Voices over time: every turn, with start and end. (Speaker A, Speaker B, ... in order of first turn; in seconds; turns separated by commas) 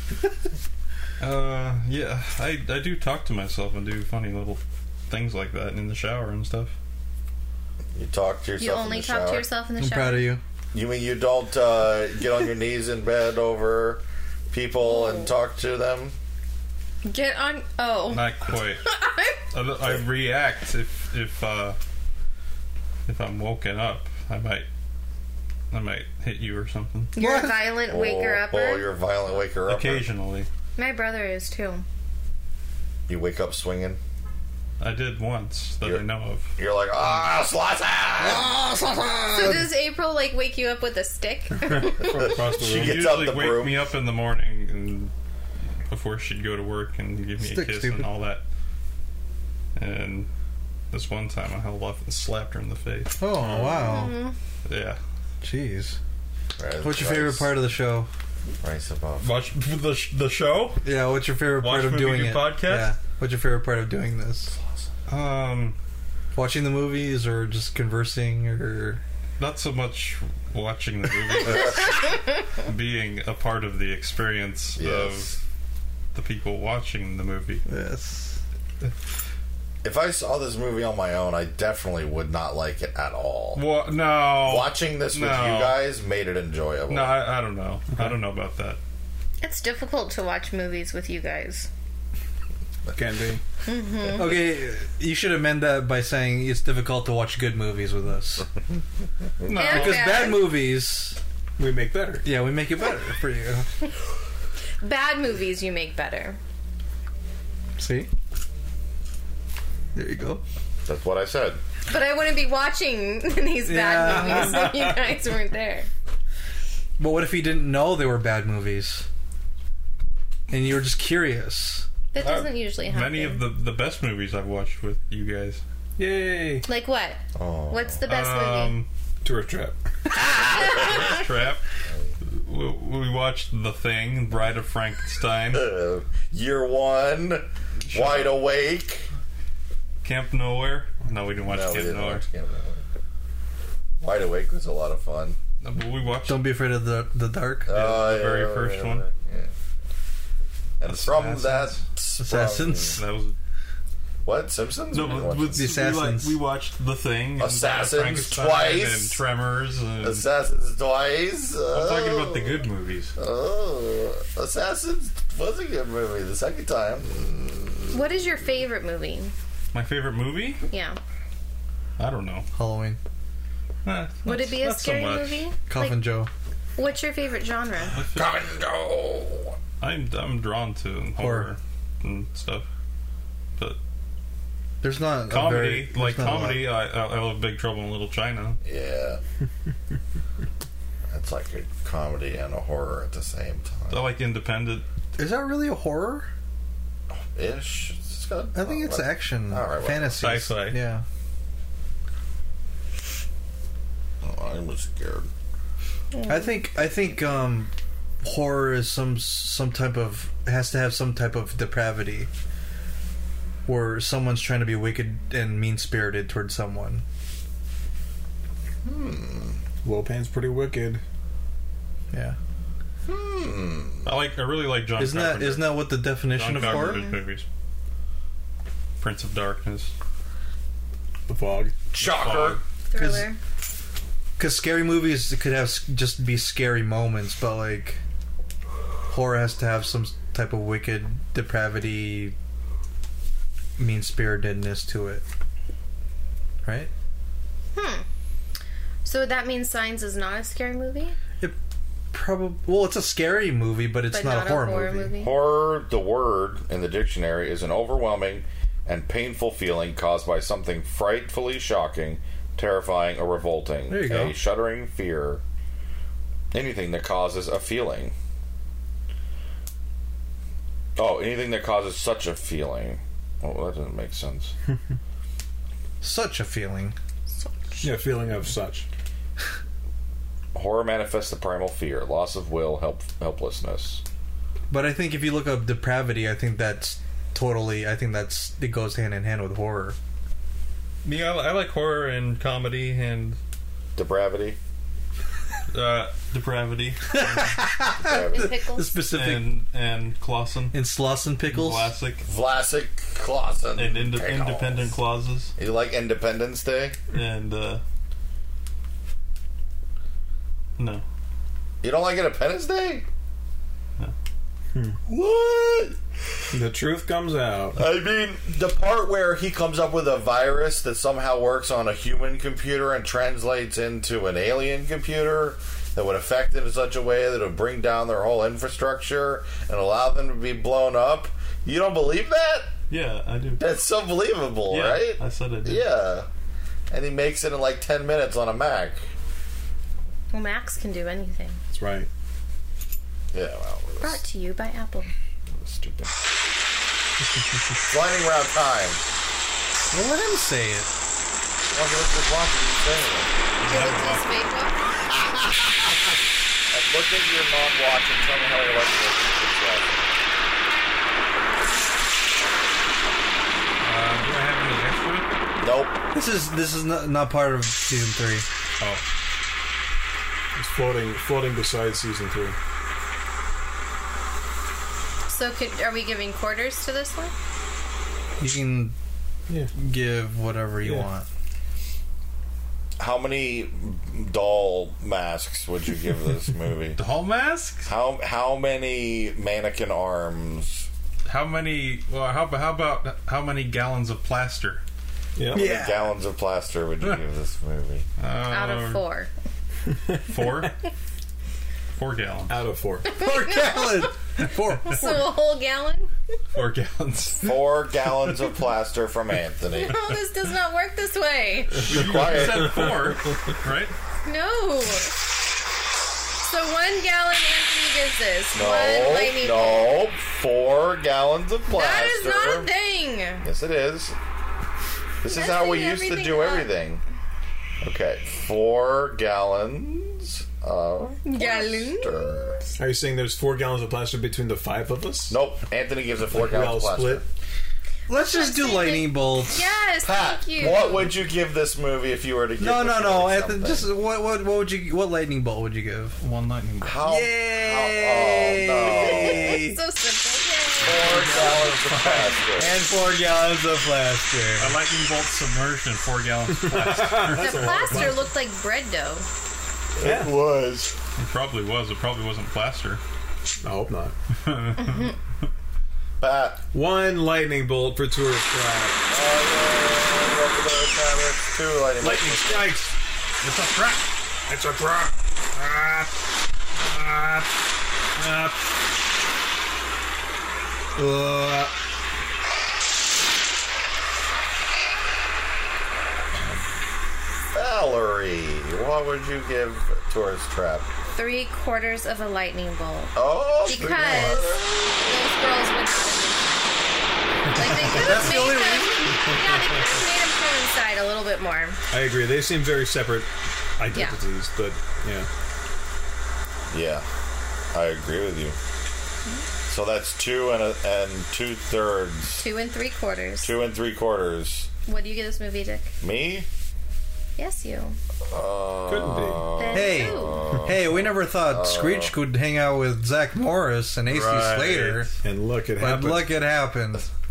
Speaker A: 1.2-6.7, Speaker B: 7.9-9.4, Speaker C: 8.6-10.4, Speaker D: 9.8-10.4, Speaker B: 10.7-16.1, Speaker C: 14.8-15.3, Speaker C: 17.0-19.4, Speaker A: 18.1-18.8, Speaker A: 19.5-21.8, Speaker A: 23.1-24.7, Speaker A: 25.7-27.1, Speaker C: 27.1-28.9, Speaker D: 27.1-27.6, Speaker B: 27.8-30.1, Speaker A: 29.7-30.5, Speaker C: 30.8-31.8, Speaker B: 33.1-34.0, Speaker A: 34.8-36.5, Speaker B: 36.6-38.5, Speaker D: 38.2-39.7, Speaker C: 39.3-42.3, Speaker E: 41.6-43.1, Speaker B: 42.2-43.8, Speaker A: 42.6-45.1, Speaker A: 45.9-48.4, Speaker D: 47.4-48.1, Speaker A: 49.8-50.3, Speaker A: 50.9-53.1, Speaker D: 53.2-54.2, Speaker E: 53.4-53.9, Speaker C: 53.8-54.3, Speaker A: 54.6-55.0, Speaker D: 55.4-56.0, Speaker B: 56.6-57.5, Speaker D: 56.8-58.1, Speaker B: 58.6-59.3, Speaker A: 59.2-60.8, Speaker D: 60.8-64.5, Speaker A: 61.6-62.9, Speaker A: 65.1-65.8, Speaker D: 66.3-69.0, Speaker A: 69.4-75.3, Speaker B: 71.4-72.0, Speaker B: 74.8-75.4, Speaker A: 76.1-77.6, Speaker D: 77.7-78.4, Speaker B: 79.8-83.6, Speaker A: 83.5-85.8, Speaker B: 84.3-87.2, Speaker A: 86.9-88.8, Speaker C: 89.4-91.7, Speaker E: 92.9-93.4, Speaker C: 93.7-94.4, Speaker D: 94.1-98.5, Speaker A: 99.4-100.3, Speaker C: 99.5-100.7, Speaker D: 99.6-101.2, Speaker E: 101.6-102.2, Speaker D: 102.2-103.7, Speaker C: 104.8-106.4, Speaker D: 107.8-108.1, Speaker D: 109.9-110.4, Speaker B: 110.8-111.6, Speaker C: 111.9-115.9, Speaker D: 113.6-114.7, Speaker D: 117.0-119.1, Speaker D: 120.5-121.9, Speaker C: 122.1-123.4, Speaker A: 122.2-125.6, Speaker E: 126.0-126.7, Speaker C: 126.6-128.8, Speaker B: 127.3-128.0, Speaker A: 128.1-128.9, Speaker E: 129.2-129.8, Speaker B: 130.2-131.2, Speaker C: 130.4-131.2, Speaker A: 130.5-131.6, Speaker B: 131.9-132.1, Speaker A: 132.2-135.7, Speaker B: 135.5-139.1, Speaker A: 137.8-138.4, Speaker A: 140.0-142.2, Speaker B: 141.5-142.8, Speaker B: 144.0-145.4, Speaker A: 145.6-146.4, Speaker D: 146.3-147.7, Speaker B: 147.7-149.5, Speaker A: 147.7-149.1, Speaker B: 150.8-153.0, Speaker A: 150.8-151.8, Speaker D: 152.2-153.0, Speaker A: 152.9-153.3, Speaker B: 154.2-155.7, Speaker A: 154.9-160.2, Speaker D: 155.5-156.4, Speaker B: 157.4-159.2, Speaker B: 160.0-162.6, Speaker A: 161.7-163.1, Speaker B: 163.2-167.8, Speaker C: 167.9-169.3, Speaker A: 169.7-170.6, Speaker C: 170.7-171.0, Speaker A: 172.0-172.4, Speaker D: 172.5-173.0, Speaker A: 173.8-175.4, Speaker C: 174.2-176.1, Speaker D: 175.7-176.3, Speaker C: 176.8-178.0, Speaker A: 177.9-178.3, Speaker B: 178.1-179.6, Speaker A: 179.8-182.7, Speaker D: 181.2-181.5, Speaker D: 184.8-186.6, Speaker A: 185.3-188.6, Speaker B: 188.6-189.2, Speaker B: 191.1-194.0, Speaker A: 193.9-194.8, Speaker D: 195.2-196.3, Speaker B: 197.3-200.4, Speaker D: 198.5-201.0, Speaker A: 200.2-200.8, Speaker B: 204.2-205.3, Speaker C: 206.1-206.7, Speaker D: 206.2-207.7, Speaker D: 208.2-212.3, Speaker D: 213.7-217.0, Speaker B: 218.8-219.6, Speaker E: 219.8-221.0, Speaker D: 222.1-222.4, Speaker B: 223.1-224.1, Speaker A: 224.0-227.4, Speaker D: 225.0-227.1, Speaker C: 226.6-227.2, Speaker A: 229.0-229.9, Speaker E: 231.3-231.7, Speaker B: 231.9-232.6, Speaker A: 232.0-232.6, Speaker C: 232.9-233.4, Speaker D: 232.9-233.3, Speaker D: 234.4-238.0, Speaker D: 239.1-242.3, Speaker D: 243.8-245.2, Speaker D: 246.6-246.9, Speaker C: 247.7-248.0, Speaker C: 249.0-251.2, Speaker D: 252.1-255.1, Speaker C: 254.1-255.4, Speaker B: 255.2-265.4, Speaker D: 263.9-264.4, Speaker B: 266.5-268.1, Speaker B: 270.9-274.5, Speaker D: 276.0-276.9, Speaker C: 277.4-277.9, Speaker E: 277.8-278.9, Speaker B: 280.5-284.0, Speaker D: 284.7-290.0, Speaker A: 291.0-293.4, Speaker B: 293.9-294.6, Speaker A: 295.7-297.6, Speaker D: 297.1-299.5, Speaker B: 298.0-298.5, Speaker C: 298.1-299.0, Speaker A: 299.1-300.8, Speaker D: 300.7-301.9, Speaker A: 301.5-302.2, Speaker B: 302.2-304.9, Speaker A: 303.8-305.5, Speaker B: 305.6-306.9, Speaker A: 307.1-307.8, Speaker A: 310.8-311.0, Speaker B: 311.8-313.0, Speaker B: 315.1-316.0, Speaker E: 316.5-317.8, Speaker B: 317.8-332.7, Speaker A: 332.9-333.7, Speaker B: 333.6-336.3, Speaker A: 334.7-335.9, Speaker B: 336.9-339.1, Speaker C: 340.3-341.6, Speaker E: 341.7-342.1, Speaker B: 343.3-344.2, Speaker C: 344.0-345.1, Speaker B: 345.5-346.1, Speaker B: 347.9-349.0, Speaker D: 349.9-350.9, Speaker B: 351.7-353.3, Speaker A: 353.6-354.2, Speaker C: 353.6-355.1, Speaker B: 355.1-356.1, Speaker B: 356.7-360.1, Speaker A: 363.8-365.3, Speaker B: 365.6-366.0, Speaker D: 366.1-368.4, Speaker A: 368.8-369.0, Speaker E: 370.5-372.6, Speaker C: 375.3-377.3, Speaker D: 378.4-378.9, Speaker D: 379.7-381.3, Speaker B: 383.0-387.0, Speaker A: 386.9-387.9, Speaker B: 387.9-390.9, Speaker A: 391.2-394.8, Speaker E: 395.4-395.7, Speaker B: 395.5-398.1, Speaker D: 395.5-396.1, Speaker A: 398.2-399.0, Speaker C: 398.4-399.3, Speaker E: 399.9-400.7, Speaker A: 400.2-400.7, Speaker A: 401.9-402.6, Speaker E: 402.5-403.1, Speaker C: 403.0-404.1, Speaker D: 403.2-405.2, Speaker C: 404.8-406.1, Speaker A: 406.5-407.6, Speaker B: 407.4-410.0, Speaker C: 409.7-411.9, Speaker B: 411.8-412.9, Speaker A: 411.9-413.9, Speaker C: 414.2-415.1, Speaker C: 416.4-420.0, Speaker B: 418.5-422.7, Speaker C: 421.7-423.4, Speaker B: 423.4-424.1, Speaker B: 425.2-427.0, Speaker C: 425.2-426.7, Speaker B: 427.8-432.6, Speaker C: 431.2-432.4, Speaker E: 432.8-435.4, Speaker B: 435.3-437.2, Speaker E: 436.3-437.2, Speaker D: 438.1-439.6, Speaker C: 438.1-441.1, Speaker B: 440.0-443.9, Speaker D: 442.6-446.2, Speaker A: 446.2-447.0, Speaker B: 446.8-449.6, Speaker D: 447.0-449.8, Speaker C: 448.9-451.2, Speaker B: 450.8-452.8, Speaker A: 451.0-452.3, Speaker E: 451.0-451.8, Speaker D: 452.6-454.8, Speaker A: 454.6-458.2, Speaker E: 456.6-458.2, Speaker C: 457.2-459.3, Speaker B: 460.0-460.9, Speaker E: 460.0-460.4, Speaker A: 461.2-463.0, Speaker E: 463.6-464.1, Speaker A: 464.4-465.1, Speaker C: 464.8-465.1, Speaker B: 466.2-466.6, Speaker E: 466.7-469.0, Speaker B: 469.1-472.8, Speaker E: 472.0-476.1, Speaker E: 476.7-477.5, Speaker E: 478.1-478.6, Speaker D: 480.9-481.7, Speaker B: 486.3-486.6, Speaker B: 487.5-490.9, Speaker C: 491.1-501.8, Speaker B: 493.1-495.2, Speaker E: 497.4-498.4, Speaker D: 497.6-499.0, Speaker E: 501.9-505.3, Speaker C: 503.9-504.2, Speaker B: 506.7-507.1, Speaker B: 507.7-508.6, Speaker B: 509.7-512.5, Speaker C: 512.4-513.5, Speaker B: 513.4-514.7, Speaker C: 514.9-515.9, Speaker B: 516.0-516.5, Speaker C: 517.4-518.0, Speaker B: 518.3-522.2, Speaker E: 518.9-519.5, Speaker C: 519.5-520.6, Speaker D: 519.7-525.1, Speaker B: 524.2-524.9, Speaker A: 524.3-525.0, Speaker E: 525.2-526.4, Speaker D: 525.8-527.0